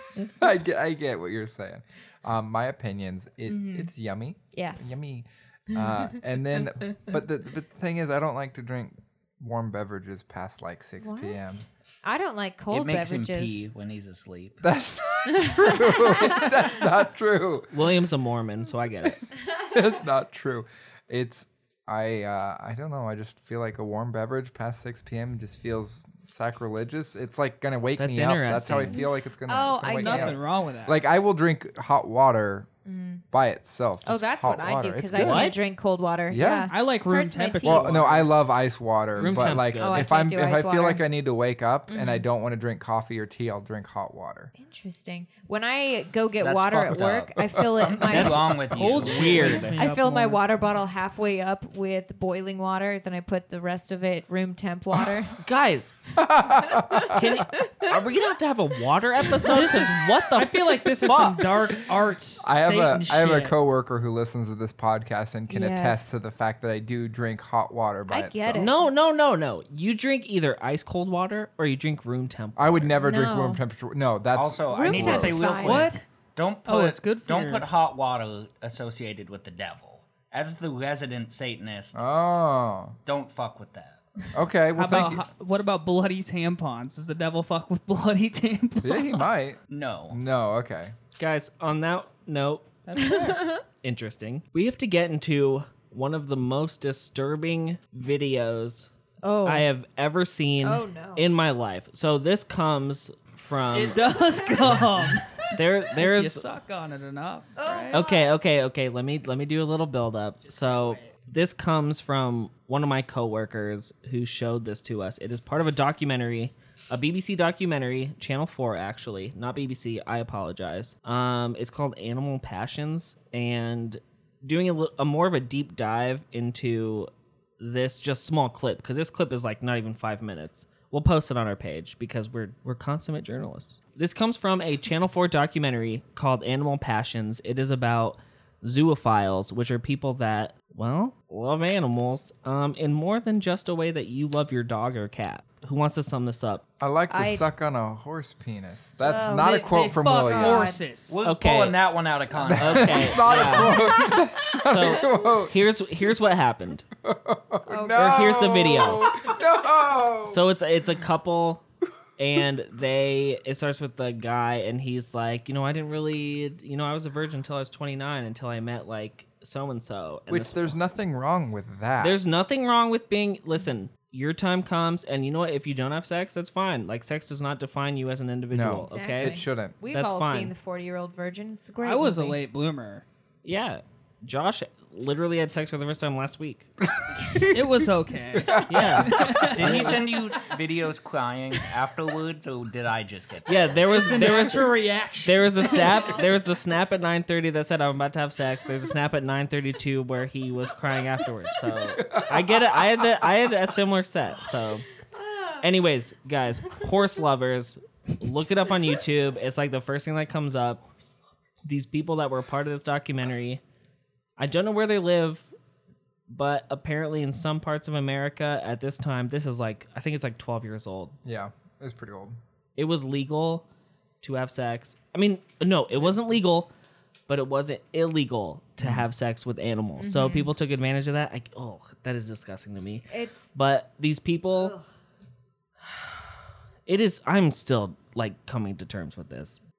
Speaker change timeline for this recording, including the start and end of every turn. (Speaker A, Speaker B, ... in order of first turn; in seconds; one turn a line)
Speaker A: 0.4-11.6
Speaker B: 3.5-3.9
Speaker B: 4.5-5.0
Speaker B: 5.7-6.2
Speaker B: 11.0-13.7
Speaker C: 12.7-14.6
Speaker A: 14.6-17.7
Speaker B: 15.3-16.7
Speaker D: 17.7-19.2
Speaker A: 19.1-32.7
Speaker D: 28.0-29.1
Speaker B: 28.9-30.4
Speaker E: 29.8-31.0
Speaker B: 32.9-33.2
Speaker A: 33.3-35.5
Speaker B: 34.0-38.0
Speaker D: 35.1-35.7
Speaker A: 36.3-36.7
Speaker E: 36.7-38.3
Speaker A: 37.6-44.5
Speaker D: 39.2-40.2
Speaker B: 39.2-41.0
Speaker B: 41.9-42.2
Speaker B: 44.5-48.6
Speaker C: 46.4-49.7
Speaker A: 47.6-47.9
Speaker D: 48.1-49.8
Speaker E: 48.8-50.4
Speaker B: 49.8-55.4
Speaker D: 55.4-56.0
Speaker A: 56.2-57.3
Speaker B: 56.6-58.0
Speaker D: 57.1-61.5
Speaker E: 59.4-63.6
Speaker A: 62.4-68.7
Speaker B: 65.5-66.1
Speaker B: 68.1-68.9
Speaker D: 68.5-73.0
Speaker A: 72.6-75.5
Speaker B: 73.0-73.6
Speaker C: 74.3-82.0
Speaker B: 74.7-75.9
Speaker E: 75.5-76.0
Speaker E: 76.7-77.7
Speaker A: 82.0-83.0
Speaker C: 83.1-84.0
Speaker A: 84.3-85.2
Speaker E: 84.7-89.5
Speaker A: 88.8-89.6
Speaker C: 89.7-90.2
Speaker A: 90.1-90.9
Speaker D: 91.1-92.7
Speaker E: 92.9-93.5
Speaker B: 93.0-93.6
Speaker D: 93.8-98.9
Speaker B: 99.2-99.7
Speaker D: 99.5-104.0
Speaker B: 100.6-101.3
Speaker E: 103.7-108.0
Speaker D: 105.5-106.5
Speaker B: 107.6-108.3
Speaker D: 107.9-146.6
Speaker E: 110.7-111.1
Speaker A: 146.8-150.7
Speaker B: 147.1-147.5
Speaker B: 149.0-150.8
Speaker E: 149.3-151.2
Speaker C: 151.1-153.4
Speaker D: 151.2-151.8
Speaker A: 152.4-155.6
Speaker D: 152.5-153.9
Speaker D: 154.6-156.9
Speaker A: 157.0-160.4
Speaker B: 157.7-159.3
Speaker D: 157.9-159.2
Speaker D: 160.3-161.6
Speaker D: 162.2-170.8
Speaker A: 170.3-172.2
Speaker D: 172.0-180.5
Speaker A: 178.5-179.8
Speaker B: 178.8-182.4
Speaker E: 181.8-183.0
Speaker D: 183.4-186.7
Speaker E: 187.5-190.0
Speaker A: 188.5-189.3
Speaker D: 188.6-190.0
Speaker C: 189.3-194.1
Speaker D: 193.5-204.8
Speaker E: 193.9-196.2
Speaker A: 202.0-202.8
Speaker B: 205.2-205.6
Speaker D: 205.6-210.8
Speaker D: 211.6-213.6
Speaker D: 214.4-215.5
Speaker D: 216.3-221.2
Speaker A: 221.2-222.4
Speaker D: 222.8-223.6
Speaker D: 224.2-226.7
Speaker D: 227.3-234.8
Speaker A: 228.8-229.1
Speaker B: 230.0-230.5
Speaker B: 233.1-233.5
Speaker B: 234.5-234.8
Speaker D: 236.9-239.6